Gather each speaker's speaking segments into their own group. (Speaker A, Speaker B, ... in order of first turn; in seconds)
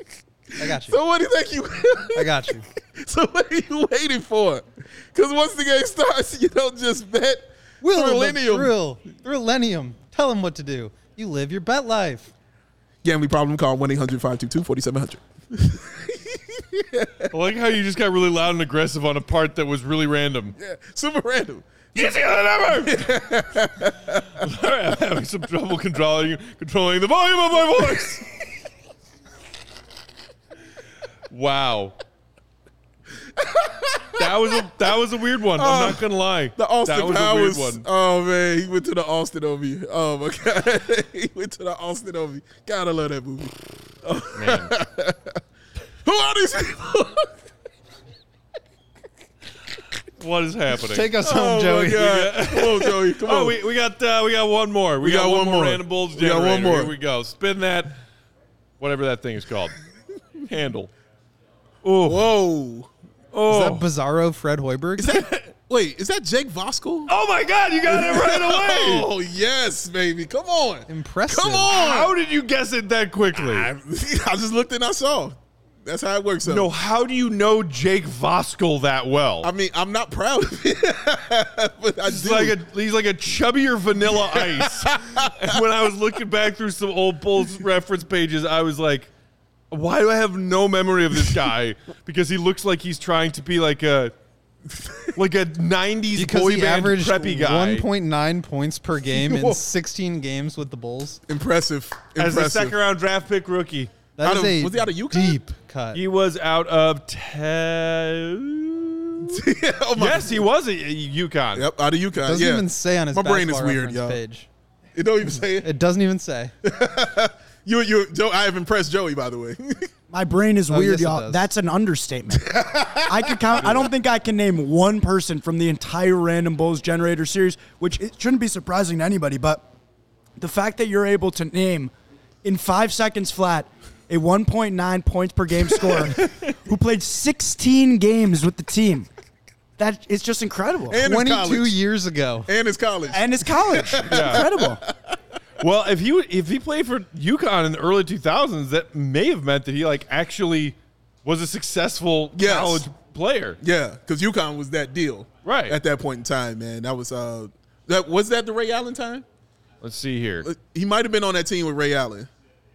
Speaker A: 0.6-1.0, 2.1-2.6, 7.8-12.3, 50.9-52.0, 63.5-65.2, 70.9-71.7, 96.2-101.2, 104.2-106.0, 112.2-114.5, 115.6-116.5, 120.7-121.5, 141.0-142.5
Speaker B: 0.6-8.7, 13.0-17.3, 20.6-22.1, 22.8-24.4, 33.4-34.6, 35.6-36.0, 36.5-45.4, 46.0-47.3, 51.2-53.6, 55.0-56.9, 62.0-62.9, 65.0-67.1, 67.9-72.1, 73.3-76.7, 79.4-82.6, 84.3-85.5, 99.1-99.6, 101.3-102.8, 104.2-105.4, 109.2-110.4, 111.5-114.2, 114.9-115.7, 116.6-119.9, 122.4-123.9, 140.9-141.8, 142.5-144.9, 152.3-152.8, 153.6-159.2, 160.4-162.3
Speaker C: 17.3-20.5, 21.9-23.1, 24.4-28.2, 31.3-31.9, 34.2-37.8, 44.3-44.7, 50.2-51.2, 51.7-58.0, 58.8-59.7, 60.5-60.9, 61.8-62.2, 63.3-63.8, 67.1-69.1, 71.7-73.7, 76.4-79.5, 82.0-89.1, 89.7-94.1, 95.1-97.8, 102.1-103.9, 105.9-109.4, 110.0-111.7, 144.1-144.5, 145.6-153.6, 155.4-155.8, 159.8-160.5
Speaker D: 120.1-129.6, 130.4-131.9, 132.4-139.1, 139.8-141.0, 143.1-144.8